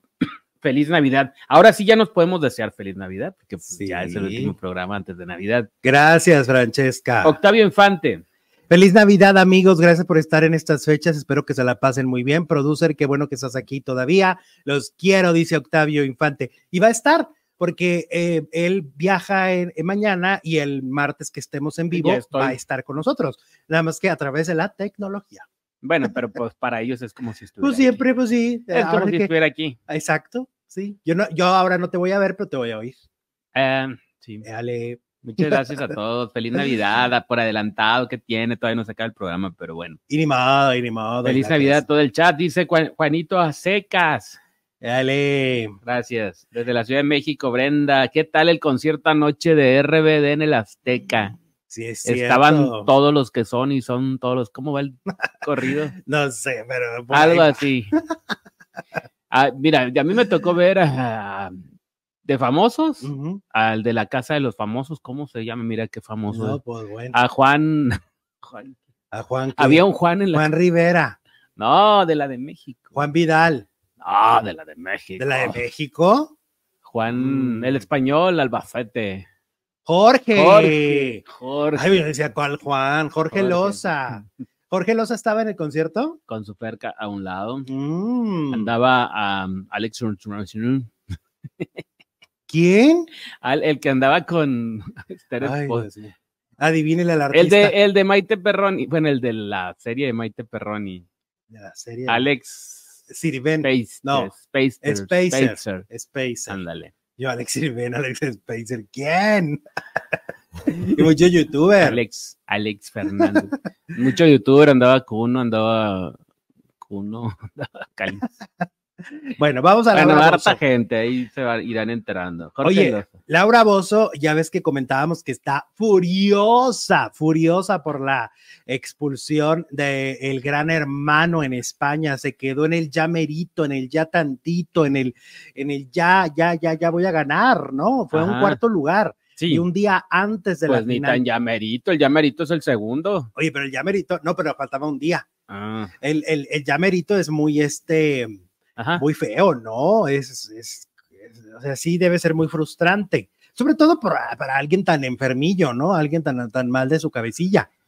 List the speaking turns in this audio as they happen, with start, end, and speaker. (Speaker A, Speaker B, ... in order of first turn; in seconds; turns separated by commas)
Speaker A: 0.2-5.7, Speaker B: 3.7-4.5, Speaker B: 5.8-7.4, Speaker A: 7.2-8.2, Speaker B: 8.7-25.4, Speaker A: 21.9-22.6, Speaker A: 25.8-28.0, Speaker B: 27.6-29.3, Speaker A: 28.7-29.8, Speaker B: 29.9-33.0, Speaker A: 33.5-34.4, Speaker B: 34.4-35.9, Speaker A: 35.2-40.0, Speaker B: 40.1-41.8, Speaker A: 41.2-44.4, Speaker B: 44.8-45.8, Speaker A: 45.8-51.3, Speaker B: 51.7-52.9, Speaker A: 52.0-55.9, Speaker B: 56.0-58.0, Speaker A: 57.1-57.9, Speaker A: 59.3-61.6, Speaker A: 62.2-66.6, Speaker B: 63.0-63.4, Speaker B: 66.3-67.2, Speaker A: 67.1-68.8, Speaker B: 69.1-71.2, Speaker A: 69.6-70.5, Speaker A: 71.6-73.0, Speaker B: 72.9-73.7, Speaker A: 74.0-75.6, Speaker B: 75.2-76.3, Speaker A: 76.8-79.2, Speaker B: 77.1-77.8, Speaker B: 79.8-81.2, Speaker A: 80.3-81.9, Speaker B: 81.7-86.2, Speaker A: 83.3-84.2, Speaker A: 86.3-87.7, Speaker B: 87.7-88.7, Speaker A: 88.5-90.9, Speaker A: 91.6-91.8, Speaker B: 92.5-93.1, Speaker A: 93.4-95.9, Speaker B: 95.4-97.7, Speaker A: 97.3-101.1, Speaker B: 101.5-102.3, Speaker A: 102.1-103.0, Speaker B: 103.1-106.6, Speaker A: 103.6-105.8, Speaker A: 106.5-106.9, Speaker B: 107.2-109.6, Speaker B: 110.7-112.0, Speaker A: 111.8-116.2, Speaker A: 116.8-118.2, Speaker B: 119.1-120.6, Speaker A: 119.9-123.2, Speaker B: 122.6-141.2, Speaker A: 138.1-138.6, Speaker A: 139.4-139.6, Speaker A: 140.7-143.3, Speaker B: 143.3-145.3, Speaker A: 145.5-145.9, Speaker B: 146.0-148.4, Speaker A: 148.8-149.0, Speaker B: 148.9-157.7